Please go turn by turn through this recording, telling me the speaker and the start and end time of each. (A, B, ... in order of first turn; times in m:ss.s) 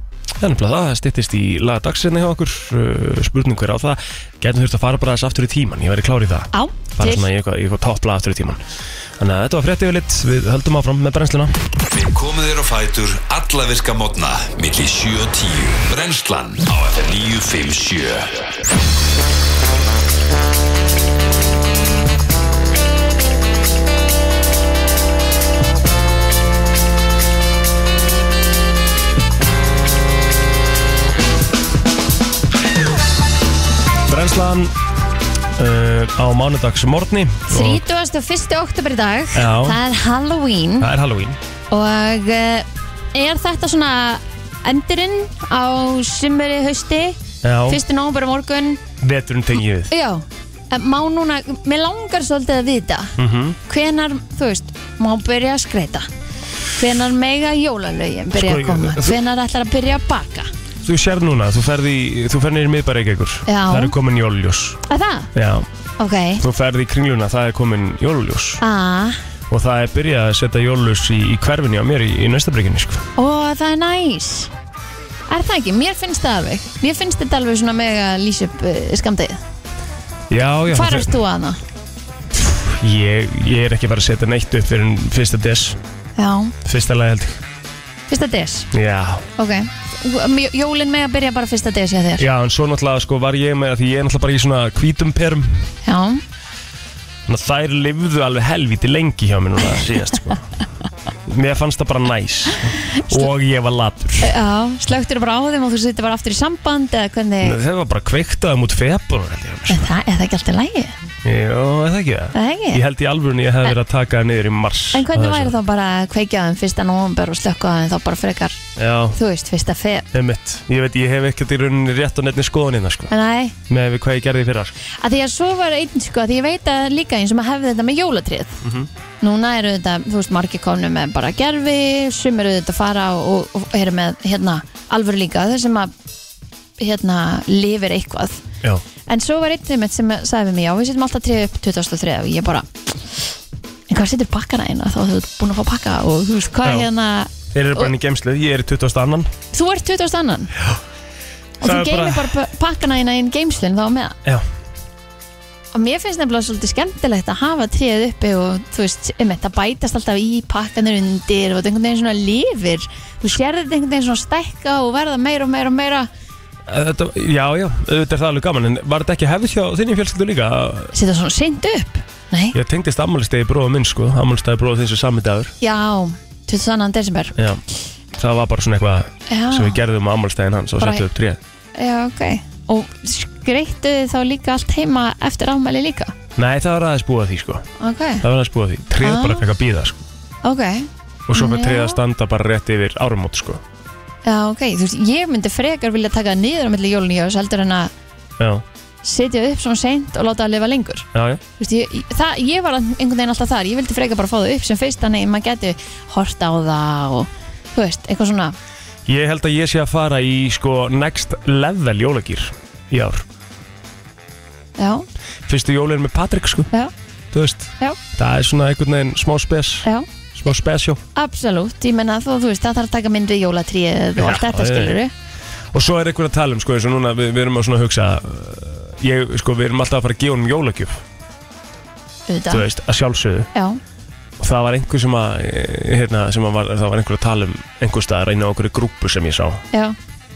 0:00.4-0:08.6 A
0:06.5-0:07.3 B
0:09.2-0:11.6 A
0:11.9-0:18.6 C
0:34.1-0:34.7 A
0:35.6-0:37.8 A
0:37.5-0:40.9 B
0:39.3-0:39.8 A
0:40.8-0:41.4 A
0:41.7-0:48.8 B
0:47.4-0:47.8 A
0:49.0-0:49.9 A
0:49.9-0:56.1 B
0:53.2-0:53.6 A
0:56.7-1:00.5 B
0:58.3-0:59.2 A
1:00.8-1:04.8 A
1:03.5-1:04.0 B
1:04.9-1:05.3 B
1:05.3-1:05.7 A
1:06.0-1:06.4 B
1:06.4-1:08.6 A
1:08.6-1:09.2 B
1:09.5-1:13.1 A
1:13.2-1:14.5 B
1:15.3-1:19.4 B
1:20.3-1:21.2 A
1:20.7-1:21.6 B
1:22.3-1:25.8 A
1:26.2-1:26.6 B
1:26.6-1:27.4 A
1:28.1-1:28.7 B
1:28.7-1:29.3 A
1:29.4-1:32.3 B
1:32.2-1:35.7 A
1:35.8-1:36.2 B
1:37.3-1:40.5 A
1:41.3-1:44.3 A
1:42.9-1:43.3 B
1:44.2-1:47.6 B
1:47.4-1:49.9 A
1:49.7-1:51.0 B
1:51.2-1:55.6 A
1:52.3-1:52.8 B
1:54.9-1:58.6 B
1:58.8-1:59.2 A
1:59.2-2:00.1 B
2:00.1-2:03.1 A
2:03.1-2:03.6 B
2:03.7-2:04.8 A
2:04.9-2:08.6 B
2:08.6-2:08.9 A
2:09.2-2:15.9 B
2:16.8-2:18.4 B
2:19.1-2:23.2 B
2:23.9-2:27.9 B
2:27.5-2:29.3 A
2:29.5-2:30.5 B
2:31.6-2:34.2 B
2:31.6-2:32.3 A
2:35.7-2:46.1 B
2:46.7-2:50.9 A
2:50.9-2:52.6 B
2:52.5-2:55.5 A
2:55.6-2:57.4 B
2:57.4-2:57.6 A
2:58.2-3:01.4 A
2:59.3-2:59.8 B
3:00.8-3:01.0 B
3:01.8-3:06.2 B
3:06.4-3:07.7 A
3:07.8-3:08.2 B
3:08.2-3:10.0 A
3:09.0-3:09.4 B
3:10.4-3:12.0 B
3:11.3-3:13.6 A
3:14.2-3:17.9 B
3:18.4-3:18.6 A
3:19.0-3:21.1 B
3:21.1-3:21.4 A
3:21.6-3:28.6 B
3:29.1-3:33.2 A
3:34.8-3:35.1 B
3:35.5-3:36.7 A
3:37.3-3:41.0 A
3:41.2-3:45.1 B
3:44.2-3:45.0 A
3:45.7-3:51.0 A
3:52.3-3:52.6 B
3:52.5-3:53.5 A
3:53.5-3:53.8 B
3:54.4-3:59.6 A